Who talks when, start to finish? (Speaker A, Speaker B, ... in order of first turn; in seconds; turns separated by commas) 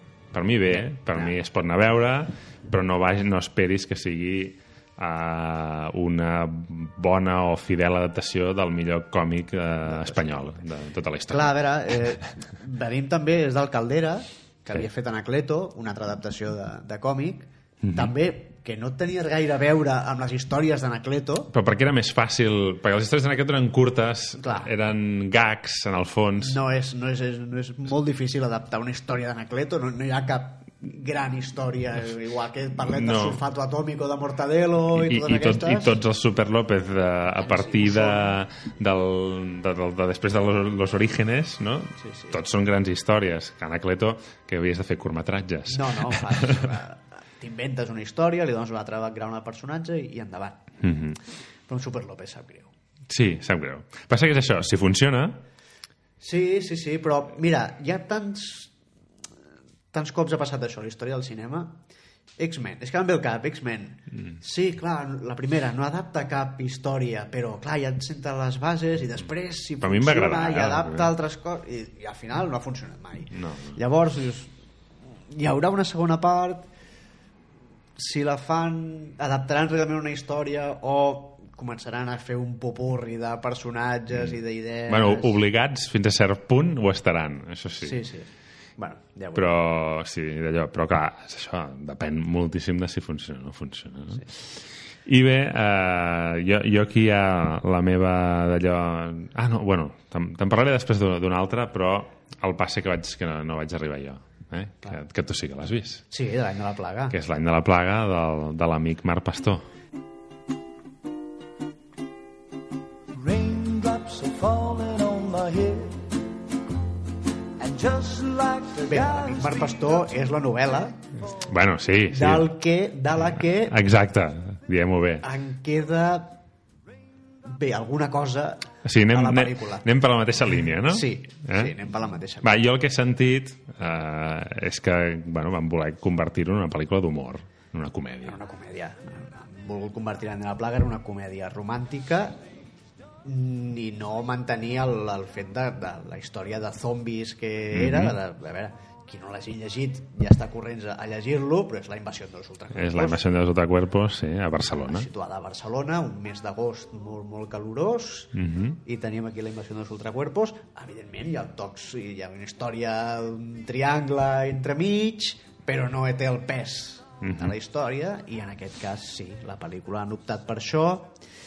Speaker A: 0.3-12.0, Speaker B: 0.7-1.4, Speaker B: 9.8-10.6, Speaker B: 11.3-21.5, Speaker A: 17.8-18.1, Speaker A: 21.5-26.6, Speaker B: 24.4-24.7, Speaker B: 26.4-36.0, Speaker A: 32.8-33.4, Speaker A: 34.9-46.7, Speaker B: 37.4-38.4, Speaker B: 42.0-42.4, Speaker B: 45.7-50.7, Speaker A: 50.8-51.2, Speaker B: 51.7-52.7, Speaker A: 53.1-55.4, Speaker B: 56.2-58.7, Speaker B: 59.9-61.8, Speaker B: 62.4-74.5, Speaker A: 69.8-71.1, Speaker A: 73.3-73.8, Speaker B: 75.3-76.7, Speaker B: 78.0-85.4, Speaker A: 84.1-88.0, Speaker B: 87.8-89.6, Speaker A: 89.3-106.0, Speaker B: 106.1-107.2, Speaker A: 107.1-109.7, Speaker C: 113.1-116.3, Speaker C: 117.6-120.5, Speaker B: 118.8-121.0, Speaker A: 121.4-122.5, Speaker B: 122.1-123.8, Speaker A: 123.2-125.3, Speaker B: 125.2-126.4, Speaker B: 127.5-129.9, Speaker A: 128.8-131.7, Speaker B: 130.8-132.6, Speaker A: 132.4-138.4, Speaker B: 138.2-142.4, Speaker B: 143.2-153.2, Speaker A: 147.7-148.2, Speaker A: 152.7-155.1, Speaker B: 154.7-171.2, Speaker A: 158.3-158.8, Speaker A: 167.2-167.6